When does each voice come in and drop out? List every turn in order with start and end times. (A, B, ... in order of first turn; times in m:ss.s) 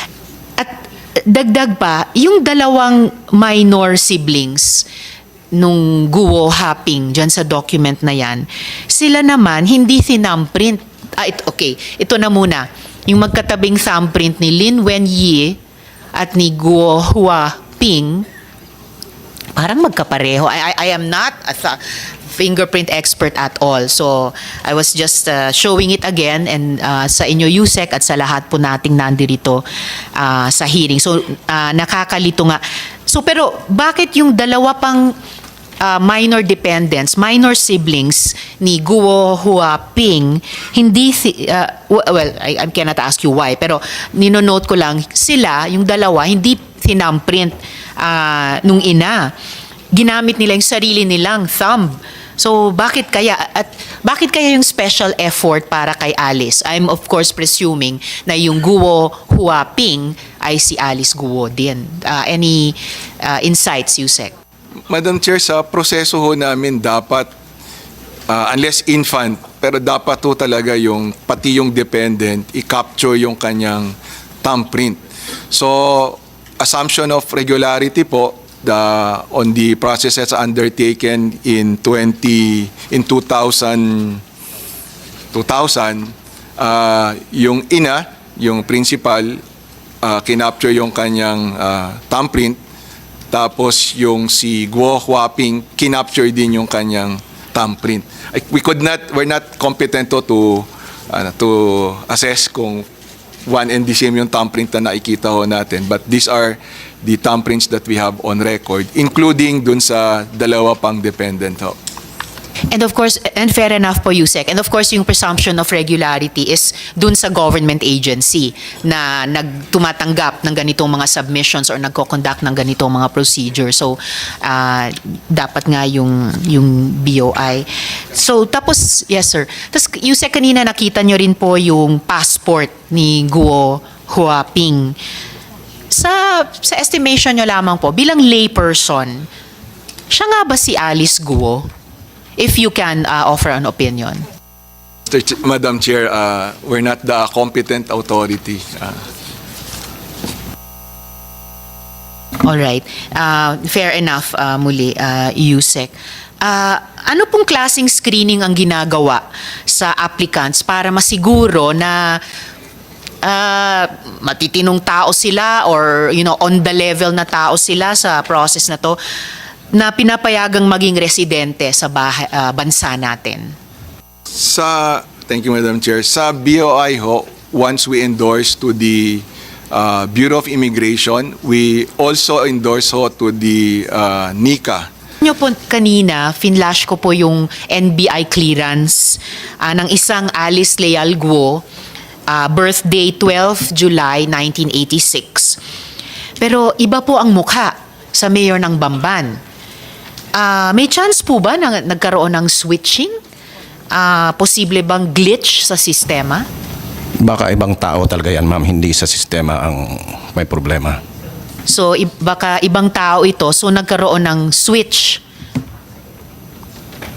0:00.6-0:04.8 A
0:05.5-0:15.6 A
0:16.1-0:18.3 A
0:19.6-0:21.8 A
0:22.3-0:29.6 A
0:30.2-0:35.1 A
0:35.8-0:49.3 A
0:49.9-1:04.3 A
1:04.9-1:07.3 B
1:08.3-1:24.2 B
1:25.3-1:29.4 B
1:30.0-1:32.6 B
1:33.3-1:42.8 B
1:43.4-1:51.8 B
1:52.7-2:15.0 A
2:15.9-2:19.3 A
2:20.1-2:21.7 A
2:22.4-2:24.2 A
2:25.1-2:29.0 B
2:32.4-2:42.2 A
2:43.2-2:49.0 A
2:49.7-2:53.5 A
2:54.3-3:04.9 B
3:05.2-3:11.6 A
3:12.3-3:15.6 A
3:16.4-3:19.4 A
3:20.3-3:23.2 A
3:23.9-3:26.5 A
3:27.2-3:31.0 C
3:31.7-3:35.2 A